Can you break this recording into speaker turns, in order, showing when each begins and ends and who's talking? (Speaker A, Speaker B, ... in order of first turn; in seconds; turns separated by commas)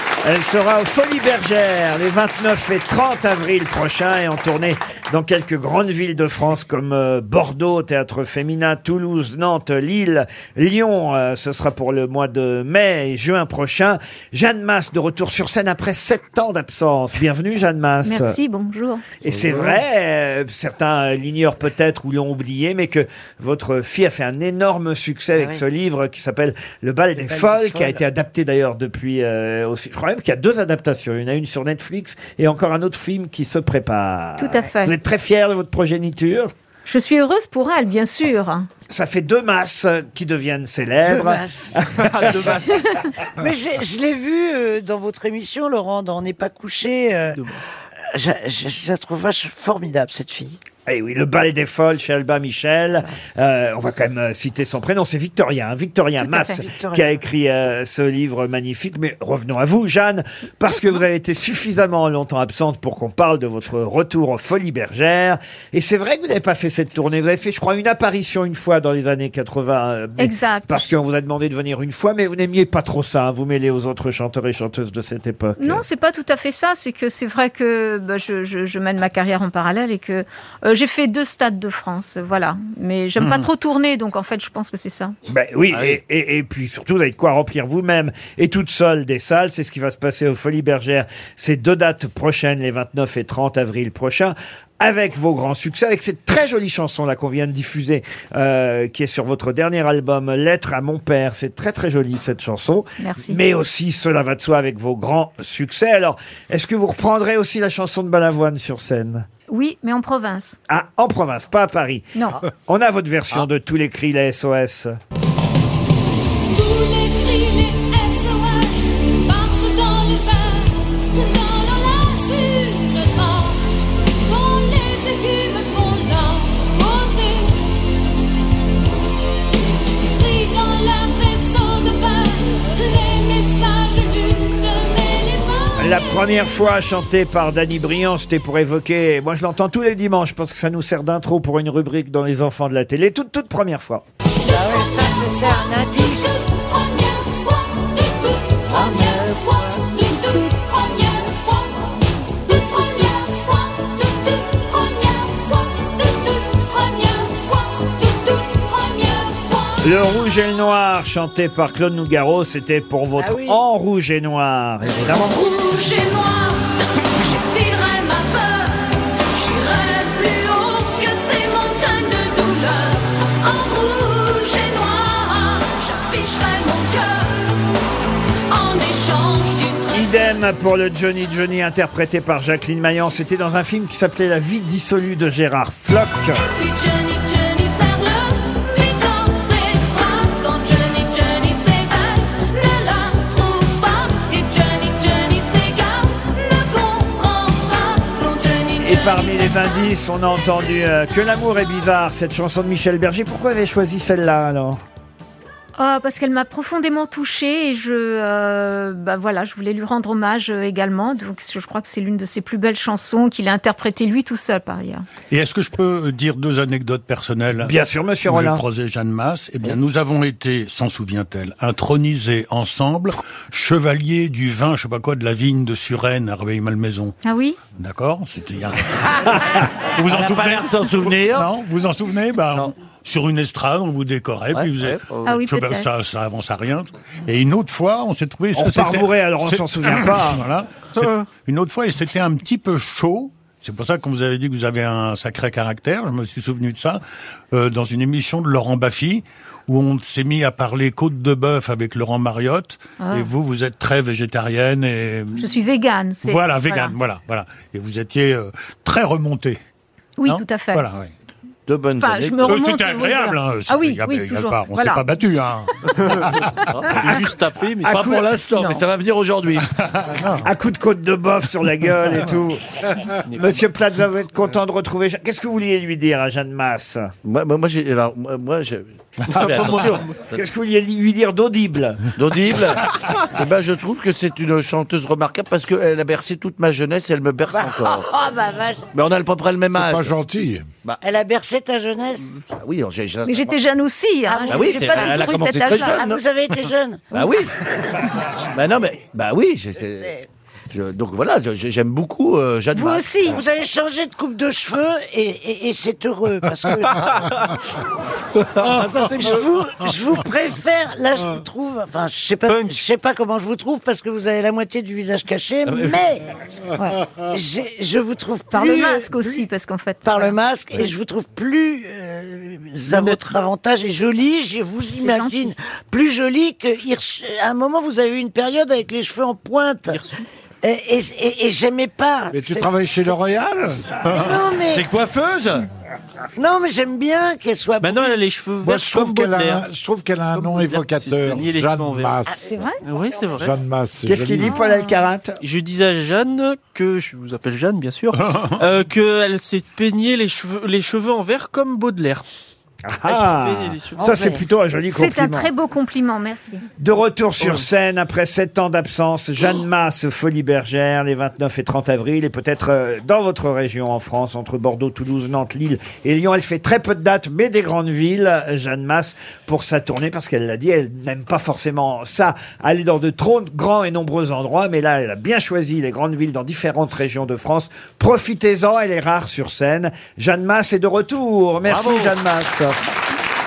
Speaker A: 0.2-18.4, Speaker B: 18.0-19.1, Speaker A: 19.2-36.5, Speaker C: 19.4-19.8, Speaker D: 25.3-25.6, Speaker D: 27.2-28.0, Speaker B: 34.4-35.0, Speaker B: 36.9-38.7, Speaker A: 38.9-42.6, Speaker D: 41.1-41.8, Speaker E: 42.0-42.9, Speaker D: 43.4-47.6, Speaker D: 48.1-50.6, Speaker A: 50.9-75.8, Speaker D: 56.2-57.2, Speaker B: 56.3-56.6, Speaker B: 70.2-70.9, Speaker B: 75.6-85.2, Speaker F: 83.2-83.5, Speaker A: 85.3-109.3, Speaker C: 85.7-86.0, Speaker B: 103.0-103.4, Speaker B: 109.5-110.6, Speaker A: 110.7-115.0, Speaker B: 112.2-112.4, Speaker G: 116.5-127.6, Speaker G: 130.1-136.2, Speaker A: 135.8-144.0, Speaker D: 144.4-146.3, Speaker G: 146.1-159.9, Speaker D: 148.7-150.1, Speaker A: 159.8-165.4, Speaker D: 163.2-163.6, Speaker G: 165.1-177.6, Speaker G: 178.5-180.4, Speaker A: 179.9-186.4, Speaker G: 186.5-199.8, Speaker A: 198.8-204.8, Speaker B: 205.8-215.1, Speaker F: 215.3-227.2, Speaker A: 217.6-218.6, Speaker B: 227.2-227.6, Speaker F: 227.7-255.5, Speaker C: 230.0-231.5, Speaker C: 234.5-235.4, Speaker B: 235.2-235.9, Speaker A: 238.6-240.4, Speaker B: 253.0-253.3, Speaker B: 255.4-257.0, Speaker F: 256.2-259.6, Speaker B: 260.2-260.9, Speaker F: 260.2-261.1, Speaker C: 261.7-262.7, Speaker B: 262.0-265.1, Speaker F: 262.5-266.6, Speaker C: 266.7-267.3, Speaker E: 266.9-268.2, Speaker A: 267.8-268.2, Speaker C: 267.9-270.2, Speaker B: 268.6-268.8, Speaker F: 269.8-270.5, Speaker A: 270.4-272.6, Speaker E: 273.3-273.5, Speaker A: 273.3-277.1, Speaker C: 277.2-280.1, Speaker E: 279.3-280.1, Speaker A: 280.3-282.1, Speaker C: 282.2-288.1, Speaker D: 287.5-288.9, Speaker C: 288.9-290.1, Speaker H: 289.8-290.7, Speaker D: 291.0-292.3, Speaker C: 292.4-293.5, Speaker B: 293.3-296.0, Speaker D: 294.3-297.2, Speaker C: 294.4-296.2, Speaker C: 297.1-297.6, Speaker C: 298.5-300.1, Speaker C: 300.7-303.4, Speaker B: 302.7-303.4, Speaker D: 303.2-307.2, Speaker C: 308.4-309.4, Speaker D: 308.8-316.2, Speaker C: 315.7-316.0, Speaker B: 316.8-317.0, Speaker D: 317.2-319.5, Speaker B: 318.5-320.9, Speaker D: 320.0-330.0, Speaker E: 322.9-323.2, Speaker B: 324.9-325.5, Speaker E: 329.9-330.2, Speaker D: 330.6-333.2, Speaker H: 332.3-333.8, Speaker F: 334.1-334.4, Speaker D: 334.2-334.9, Speaker C: 334.6-335.7, Speaker D: 336.4-338.2, Speaker E: 337.8-339.6, Speaker H: 338.6-342.6, Speaker E: 340.3-342.2, Speaker D: 342.4-342.8, Speaker E: 342.9-343.5, Speaker H: 343.4-344.6, Speaker A: 344.1-345.4, Speaker B: 344.4-345.0, Speaker E: 345.4-352.2, Speaker F: 348.2-348.6, Speaker A: 352.9-355.5, Speaker E: 353.1-354.0, Speaker D: 354.0-354.4, Speaker B: 354.9-356.6, Speaker A: 356.8-382.8, Speaker E: 357.4-357.6, Speaker C: 381.6-382.1